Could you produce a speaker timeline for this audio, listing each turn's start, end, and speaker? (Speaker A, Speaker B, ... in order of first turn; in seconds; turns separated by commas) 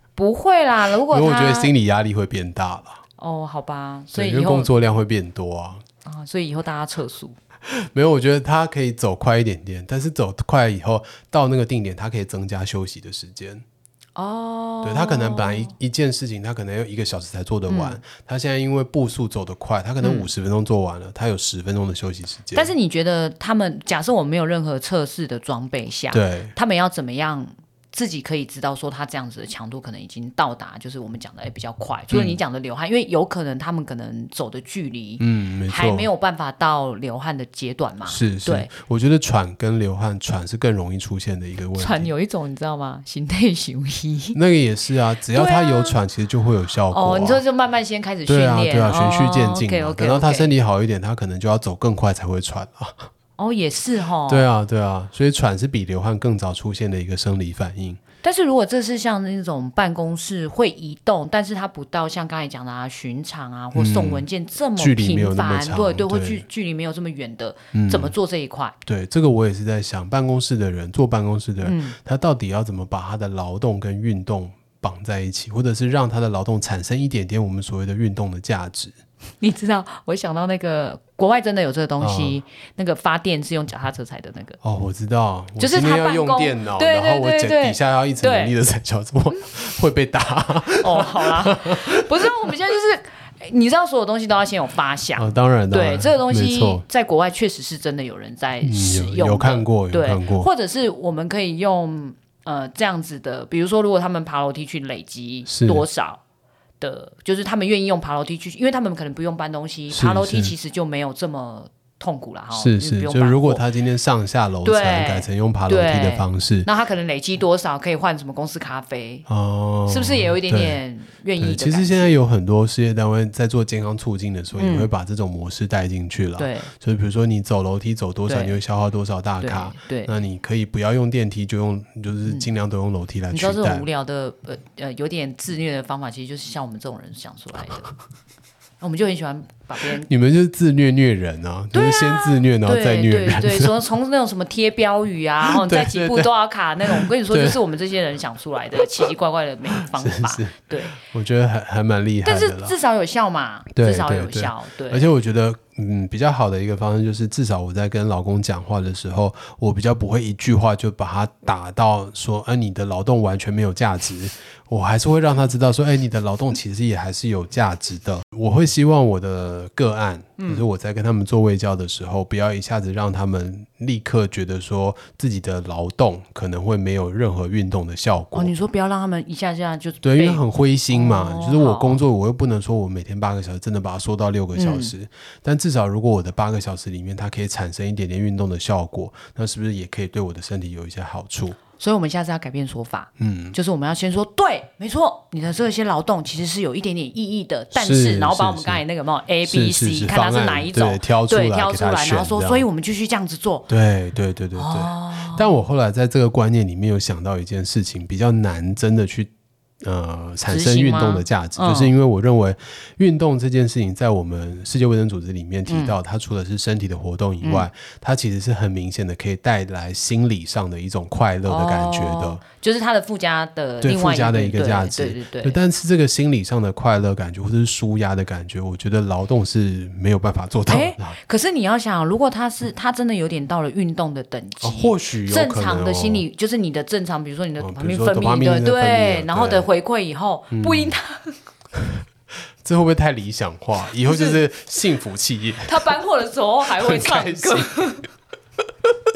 Speaker A: 0.1-1.7, Speaker B: 1.1-3.0, Speaker A: 3.2-4.7, Speaker B: 4.1-5.8, Speaker A: 6.0-7.3, Speaker B: 7.7-13.6, Speaker A: 14.2-15.7, Speaker B: 14.8-22.7, Speaker A: 17.7-18.0, Speaker A: 20.0-20.3, Speaker A: 22.5-38.7, Speaker B: 26.1-26.5, Speaker B: 32.1-32.4, Speaker B: 35.2-36.1, Speaker B: 38.0-42.1, Speaker A: 41.8-44.4, Speaker B: 44.3-47.4, Speaker A: 45.3-46.0, Speaker A: 46.9-50.5, Speaker B: 48.2-53.0, Speaker A: 53.4-54.5, Speaker B: 54.3-58.0, Speaker A: 58.2-68.8, Speaker B: 63.7-64.2, Speaker B: 64.8-66.5, Speaker B: 67.7-68.1, Speaker B: 68.8-78.9, Speaker A: 71.6-72.0, Speaker A: 79.4-84.6, Speaker B: 82.0-82.4, Speaker B: 84.6-92.0, Speaker A: 85.6-88.5, Speaker A: 90.8-106.2, Speaker B: 95.2-96.8, Speaker B: 98.6-100.5, Speaker B: 105.5-105.8, Speaker A: 106.8-113.6, Speaker B: 109.9-110.5, Speaker B: 112.5-116.7, Speaker A: 114.6-119.2, Speaker B: 119.3-120.8, Speaker A: 119.9-122.2, Speaker B: 121.4-133.9, Speaker A: 124.5-124.9, Speaker A: 126.4-126.7, Speaker A: 128.2-128.6, Speaker A: 129.4-130.1, Speaker A: 133.3-137.9, Speaker A: 138.8-140.1, Speaker B: 140.0-143.8, Speaker A: 141.7-151.0, Speaker B: 145.4-147.6, Speaker B: 149.8-152.8, Speaker A: 152.2-155.1, Speaker B: 153.7-178.5, Speaker A: 170.4-170.6, Speaker A: 178.3-182.0, Speaker B: 180.0-191.6, Speaker A: 184.5-184.9, Speaker A: 191.8-203.7, Speaker B: 193.2-193.6, Speaker B: 197.7-198.8, Speaker B: 199.4-202.7, Speaker B: 203.7-209.3, Speaker A: 204.6-205.5, Speaker B: 209.8-222.4, Speaker A: 210.5-211.9, Speaker A: 215.7-216.0, Speaker A: 217.4-217.7, Speaker A: 221.4-225.6, Speaker B: 223.8-231.2, Speaker A: 230.7-241.4, Speaker B: 234.6-236.2, Speaker B: 237.6-239.7, Speaker B: 240.5-241.0, Speaker B: 242.6-245.9, Speaker A: 244.0-244.4, Speaker A: 245.6-248.1, Speaker B: 246.7-247.9